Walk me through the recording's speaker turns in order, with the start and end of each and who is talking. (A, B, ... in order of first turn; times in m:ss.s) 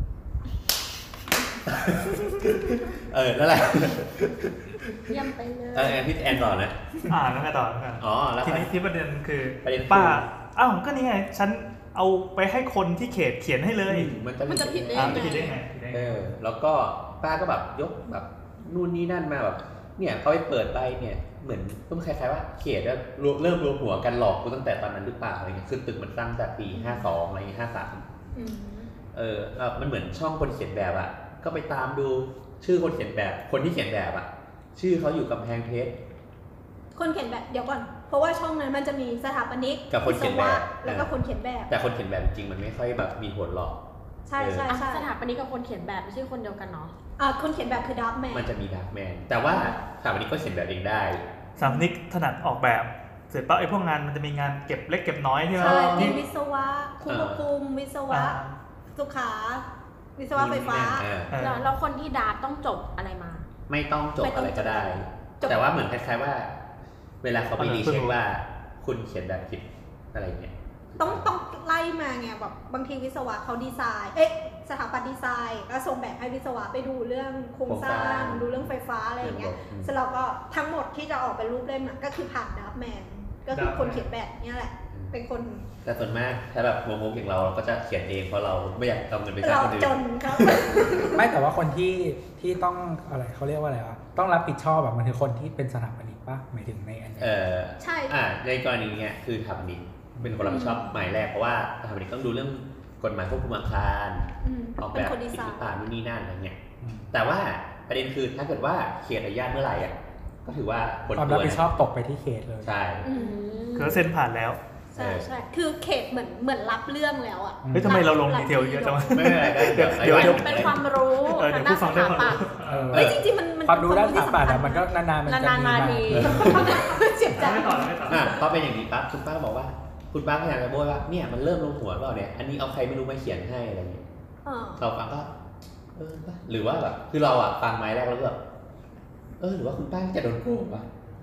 0:01.6-0:06.8 A
0:05.1-0:06.1 B
0:07.1-0:14.1 C
0:08.0-0:08.7 A
0:09.6-0:10.2 A
0:13.8-0:28.0 A
0:14.5-0:15.6 D
0:14.9-0:16.2 C
0:26.7-0:27.1 D
0:28.3-0:28.9 D
0:29.1-0:36.0 A
0:36.9-0:41.7 D
0:39.9-0:41.1 A
0:41.7-0:43.8 A
0:44.3-0:45.1 D
0:44.4-0:44.8 A
0:44.6-0:46.9 B
0:47.2-0:48.5 D
0:48.3-0:51.2 A
0:49.5-0:49.8 D
0:51.6-0:56.2 C
0:51.6-0:51.9 D
0:55.6-0:56.2 A
0:55.6-0:58.4 D
0:57.0-0:57.4 A
0:58.1-0:58.5 C
0:58.9-0:59.6 D
1:00.2-1:01.1 D
1:00.3-1:01.3 A
1:01.3-1:01.7 C
1:01.4-1:03.4 B
1:03.7-1:06.5 A
1:05.4-1:05.6 D
1:07.2-1:11.3 A
1:07.6-1:08.1 C
1:11.0-1:25.7 D
1:17.6-1:19.9 A
1:23.5-1:24.0 C
1:24.9-1:25.2 A
1:25.8-1:31.2 A
1:29.4-1:31.2 D
1:31.1-1:37.3 E
1:37.2-1:46.6 A
1:37.8-1:38.2 D
1:40.2-1:40.5 E
1:40.4-1:40.9 D
1:44.4-1:45.6 D
1:46.8-1:47.1 E
1:47.1-1:51.7 A
1:51.1-1:52.7 E
1:52.6-1:53.1 A
1:53.0-1:54.0 B
1:53.0-1:53.8 D
1:53.8-1:54.6 C
1:54.9-1:55.3 A
1:54.9-2:00.2 D
1:57.6-1:58.0 E
1:57.7-2:03.0 C
1:59.1-2:00.8 A
2:00.0-2:02.5 B
2:02.6-2:06.6 E
2:02.9-2:03.2 A
2:02.9-2:04.9 D
2:05.2-2:06.7 B
2:06.2-2:06.9 A
2:06.2-2:08.4 D
2:06.6-2:08.4 C
2:08.1-2:14.0 A
2:14.4-2:14.8 D
2:14.8-2:15.3 A
2:15.9-2:18.4 A
2:19.4-2:20.9 A